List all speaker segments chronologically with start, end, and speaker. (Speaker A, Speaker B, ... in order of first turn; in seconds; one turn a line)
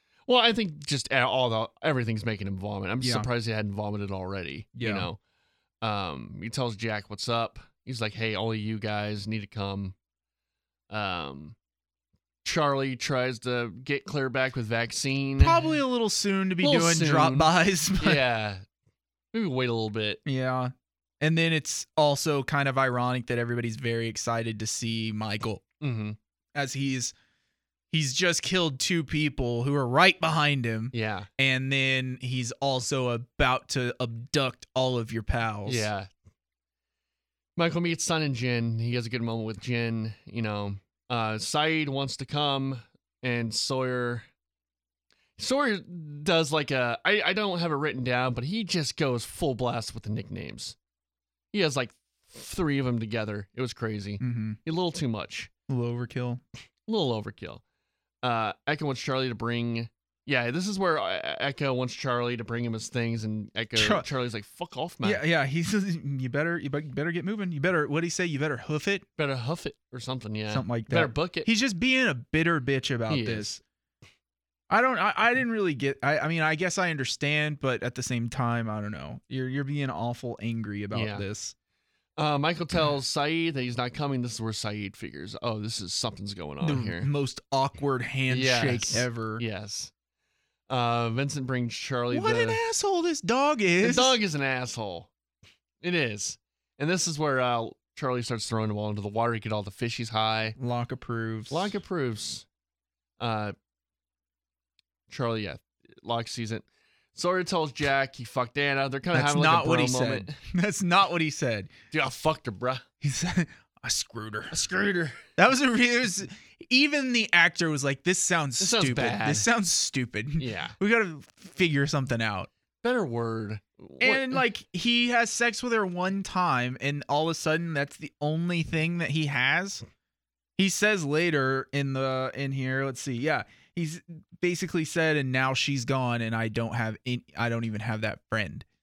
Speaker A: 0.3-5.2
Speaker B: 3.0-3.3
Speaker B: 4.8-5.1
Speaker A: 5.8-9.9
Speaker A: 10.9-11.6
Speaker A: 12.4-15.7
Speaker B: 15.4-18.2
Speaker A: 16.6-17.5
Speaker A: 18.0-18.6
Speaker A: 19.3-20.2
Speaker B: 20.3-25.6
Speaker A: 25.8-26.2
Speaker B: 26.6-27.1
Speaker B: 27.9-35.9
Speaker A: 30.9-31.3
Speaker A: 35.7-36.1
Speaker A: 37.6-44.3
Speaker A: 45.4-50.8
Speaker A: 51.5-55.5
Speaker B: 54.2-54.6
Speaker B: 55.7-56.4
Speaker A: 56.9-57.6
Speaker A: 58.2-65.2
Speaker B: 63.8-64.1
Speaker B: 65.0-69.0
Speaker A: 69.2-71.5
Speaker B: 70.5-73.6
Speaker A: 73.1-73.5
Speaker B: 74.7-81.5
Speaker A: 80.9-81.2
Speaker A: 82.2-87.1
Speaker B: 86.6-89.4
Speaker A: 88.3-89.9
Speaker A: 90.7-92.6
Speaker B: 92.1-94.2
Speaker A: 93.8-95.1
Speaker A: 95.8-100.6
Speaker B: 100.6-101.8
Speaker A: 101.5-102.5
Speaker A: 103.2-103.5
Speaker A: 105.1-110.4
Speaker B: 109.1-111.7
Speaker A: 111.9-112.8
Speaker B: 113.0-114.6
Speaker A: 114.5-115.2
Speaker B: 115.4-122.5
Speaker A: 118.6-119.5
Speaker A: 120.4-120.7
Speaker A: 122.8-124.4
Speaker B: 124.0-129.8
Speaker B: 130.6-138.7